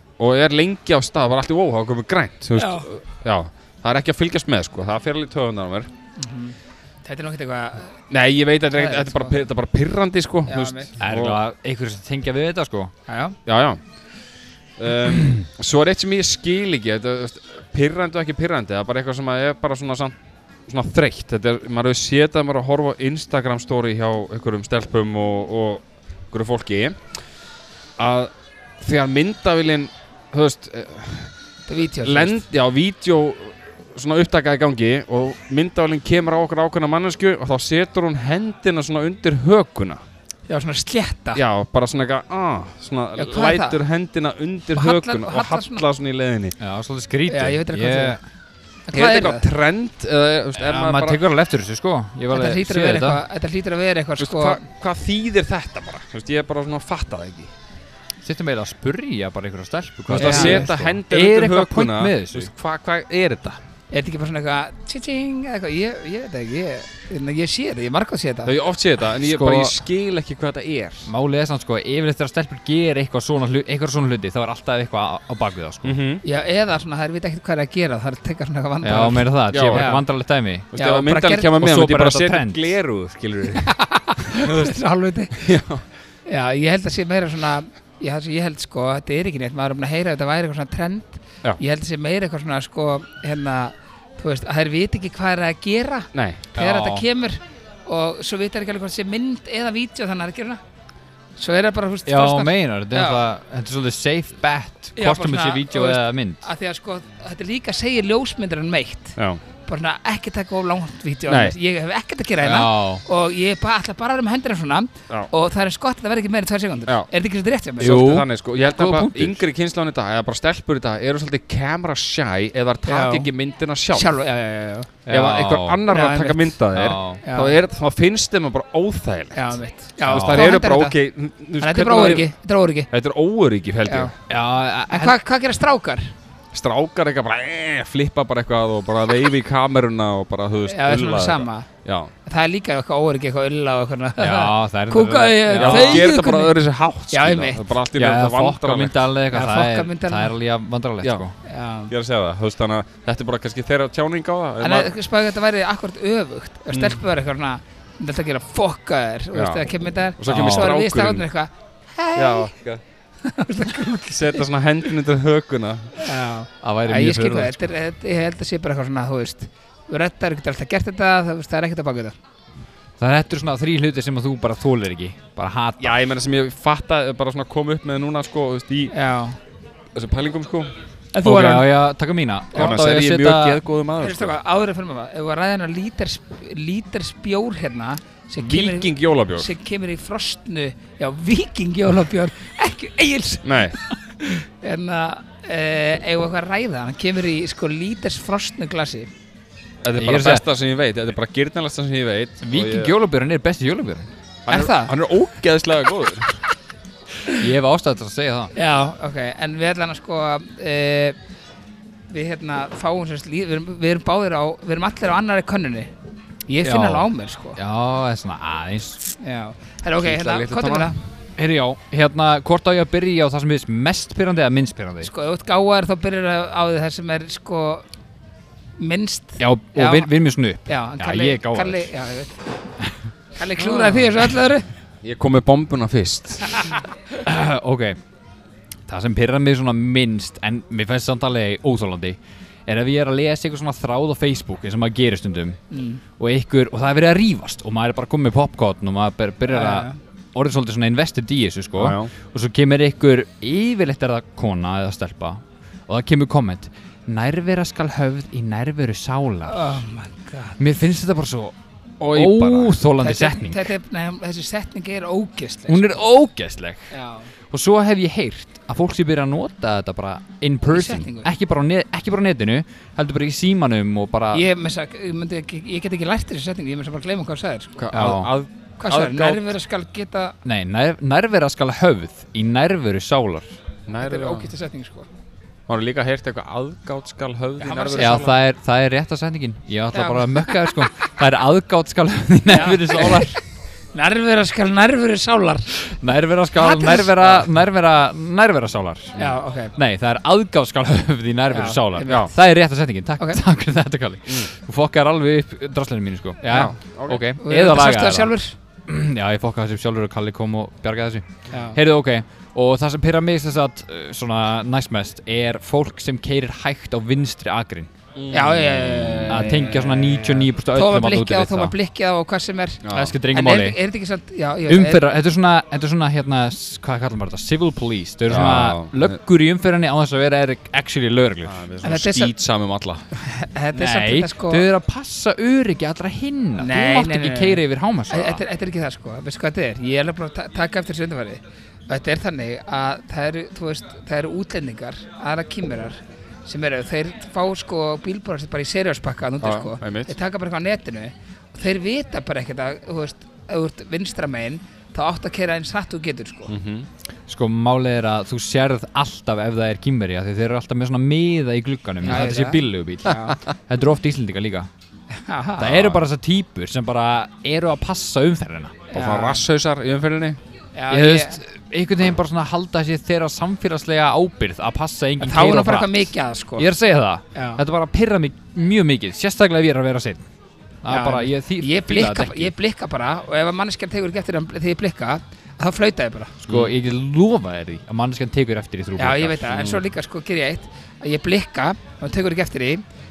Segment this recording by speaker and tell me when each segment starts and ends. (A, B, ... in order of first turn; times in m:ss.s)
0:00.2-0:05.9 A
0:02.6-0:02.9 B
0:06.2-0:08.0 B
0:08.1-0:11.4 A
0:08.7-0:09.4 B
0:10.5-0:10.9 B
0:11.0-0:12.9 C
0:13.1-0:13.4 B
0:13.4-0:13.8 A
0:14.8-0:20.1 A
0:20.7-0:27.1 A
0:28.0-0:31.3 A
0:31.7-0:32.4 B
0:32.0-0:40.0 A
0:40.5-0:41.4 B
0:41.3-0:46.5 A
0:43.2-0:43.8 B
0:44.7-0:45.8 B
0:46.6-0:48.2 C
0:47.3-0:48.2 B
0:48.9-0:49.5 B
0:48.9-0:51.2 A
0:50.6-0:53.2 C
0:52.3-0:54.6 B
0:54.2-0:57.5 A
0:58.2-1:02.5 C
1:00.1-1:03.6 A
1:00.1-1:00.7 B
1:03.9-1:08.5 B
1:08.4-1:11.1 A
1:09.2-1:09.7 C
1:11.1-1:16.0 C
1:15.8-1:16.2 A
1:16.2-1:20.0 B
1:18.8-1:20.7 C
1:19.5-1:20.0 A
1:20.7-1:23.7 A
1:20.7-1:21.5 B
1:21.5-1:22.7 C
1:23.6-1:25.5 B
1:24.2-1:24.7 A
1:25.3-1:25.8 A
1:26.3-1:40.6 B
1:36.1-1:36.4 A
1:36.5-1:37.0 C
1:41.4-1:43.2 B
1:42.1-1:46.4 C
1:45.0-1:58.0 B
1:51.3-1:51.5 A
1:52.4-1:53.0 C
1:57.8-2:04.1 A
1:57.8-1:59.4 C
2:02.8-2:03.3 B
2:03.9-2:04.9 B
2:05.0-2:05.8 C
2:05.1-2:12.3 A
2:05.9-2:06.6 B
2:06.7-2:07.2 C
2:07.2-2:07.6 B
2:09.3-2:11.0 B
2:10.1-2:10.5 C
2:11.6-2:12.9 B
2:12.9-2:14.1 A
2:13.8-2:14.1 B
2:14.3-2:15.2 C
2:14.9-2:16.1 B
2:16.5-2:22.1 A
2:20.7-2:21.7 B
2:22.2-2:26.5 B
2:24.2-2:26.1 C
2:25.5-2:29.0 A
2:27.1-2:27.6 B
2:27.9-2:31.3 C
2:29.3-2:30.3 B
2:31.4-2:31.9 B
2:31.9-2:34.9 A
2:34.6-2:42.5 B
2:36.7-2:37.0 A
2:39.3-2:41.2 A
2:40.3-2:40.7 C
2:42.1-2:42.8 A
2:43.2-2:44.4 B
2:44.1-2:46.0 A
2:46.0-2:52.2 B
2:46.6-2:47.7 C
2:53.0-2:55.9 C
2:55.8-2:58.9 A
2:58.9-2:59.4 B
2:59.9-3:00.7 A
3:01.1-3:01.7 B
3:01.2-3:03.6 C
3:02.5-3:04.3 A
3:04.0-3:19.1 B
3:08.4-3:09.5 A
3:13.4-3:13.8 A
3:19.8-3:22.9 A
3:20.0-3:20.4 C
3:22.4-3:24.1 C
3:24.4-3:26.4 A
3:24.5-3:24.9 B
3:27.3-3:28.5 C
3:28.5-3:31.2 B
3:32.1-3:35.9 B
3:36.5-3:37.6 B
3:36.6-3:39.1 C
3:39.2-3:41.0 B
3:40.0-3:40.9 A
3:41.4-3:45.1 C
3:45.0-3:47.8 B
3:48.8-3:50.1 B
3:49.4-3:51.9 C
3:50.6-3:52.4 B
3:53.3-3:54.7 B
3:55.0-3:56.7 A
3:57.2-3:58.0 C
3:58.9-4:05.6 C
4:05.7-4:06.0 B
4:06.2-4:19.8 C
4:09.5-4:10.0 B
4:11.8-4:12.1 A
4:19.5-4:20.6 B
4:20.6-4:21.5 C
4:22.0-4:22.8 A
4:22.1-4:23.7 C
4:23.0-4:25.9 B
4:25.7-4:26.9 C
4:26.9-4:27.3 B
4:27.5-4:34.4 C
4:30.7-4:31.3 B
4:34.3-4:37.8 B
4:37.8-4:39.5 A
4:37.9-4:38.3 C
4:38.8-4:40.3 B
4:40.4-4:43.6 C
4:43.9-4:44.5 A
4:44.0-4:45.1 B
4:45.7-4:48.4 A
4:47.6-4:48.4 B
4:48.0-4:53.4 C
4:49.9-4:50.8 B
4:52.5-4:53.4 B
4:53.9-4:55.7 B
4:55.8-4:59.2 C
4:56.6-4:57.5 B
4:59.2-4:59.7 B
4:59.7-5:08.3 C
5:01.5-5:02.3 B
5:06.5-5:07.2 A
5:07.4-5:08.5 B
5:08.9-5:17.9 C
5:11.5-5:11.8 B
5:18.2-5:19.6 A
5:18.3-5:25.0 B
5:19.3-5:21.7 C
5:22.8-5:23.2 A
5:22.9-5:23.8 C
5:24.7-5:31.6 C
5:28.3-5:29.1 A
5:31.4-5:33.1 A
5:31.8-5:32.3 B
5:33.2-5:34.6 B
5:33.8-5:38.4 C
5:36.6-5:56.5 B
5:49.4-5:50.1 A
5:56.5-5:56.9 A
5:57.3-6:04.7 C
6:02.0-6:03.4 B
6:05.2-6:05.7 B
6:05.6-6:08.8 C
6:05.7-6:06.0 A
6:08.9-6:09.4 B
6:08.9-6:10.4 A
6:10.7-6:11.4 B
6:10.9-6:20.2 C
6:15.2-6:16.7 B
6:17.3-6:17.6 B
6:20.8-6:22.5 C
6:20.9-6:26.3 B
6:26.4-6:29.5 C
6:26.5-6:26.7 A
6:29.0-6:32.8 B
6:29.5-6:29.8 A